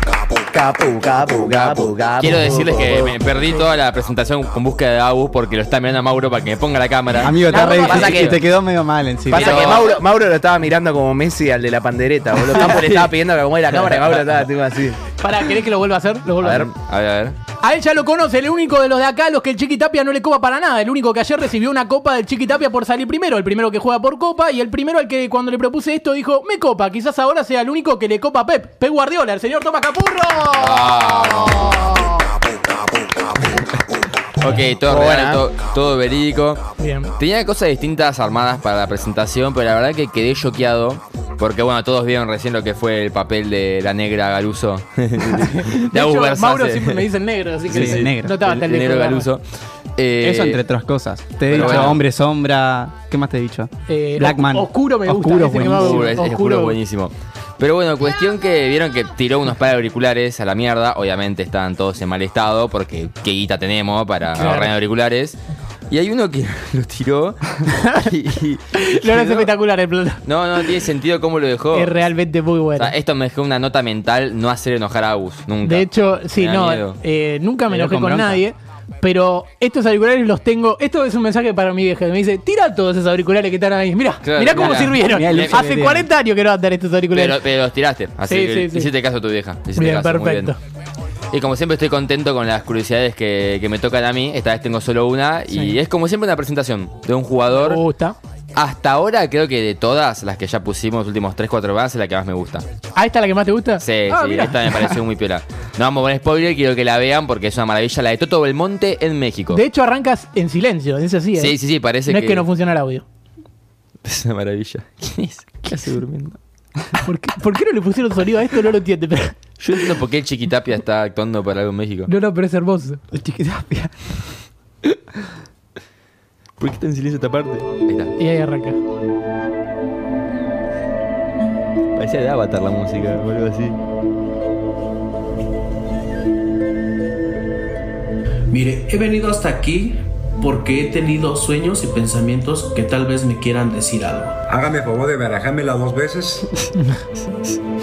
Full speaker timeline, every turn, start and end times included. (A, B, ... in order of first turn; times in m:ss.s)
0:00.5-0:03.2 A
0:01.5-0:08.4 B
0:07.2-0:09.7 C
0:07.5-0:08.3 D
0:09.3-0:15.0 A
0:09.3-0:10.0 B
0:12.4-0:13.1 B
0:13.7-0:14.3 B
0:15.2-0:16.7 D
0:16.4-0:16.7 A
0:16.5-0:17.4 B
0:17.6-0:32.1 D
0:30.6-0:32.0 B
0:34.4-0:36.6 B
0:34.8-0:35.4 A
0:36.8-0:37.1 D
0:37.2-0:47.0 B
0:45.4-0:49.3 D
0:47.7-0:49.4 B
0:47.7-0:48.3 C
0:50.0-0:50.6 B
0:50.2-0:56.1 C
0:51.5-0:52.0 B
0:51.5-0:51.9 D
0:53.9-0:56.8 D
0:55.7-1:05.4 B
1:04.4-1:04.7 D
1:05.9-1:08.6 B
1:08.7-1:10.2 D
1:09.1-1:09.4 C
1:10.2-1:11.9 B
1:11.7-1:12.9 D
1:12.8-1:17.0 B
1:15.6-1:27.4 D
1:17.7-1:18.4 C
1:24.2-1:25.6 B
1:24.5-1:26.1 C
1:27.1-1:30.5 B
1:28.2-1:28.9 D
1:29.8-1:30.6 D
1:31.3-1:37.8 B
1:37.5-1:38.2 D
1:38.5-1:42.6 B
1:43.0-1:45.0 D
1:43.8-1:49.6 B
1:49.5-1:51.5 D
1:51.4-1:52.4 B
1:52.1-1:53.0 D
1:54.0-1:56.4 B
1:57.0-1:59.4 D
1:59.6-2:02.1 B
2:02.1-2:03.0 D
2:03.1-2:03.9 C
2:06.6-2:08.1 B
2:08.2-2:08.8 D
2:12.0-2:13.8 B
2:18.5-2:24.4 E
2:24.5-2:26.5 F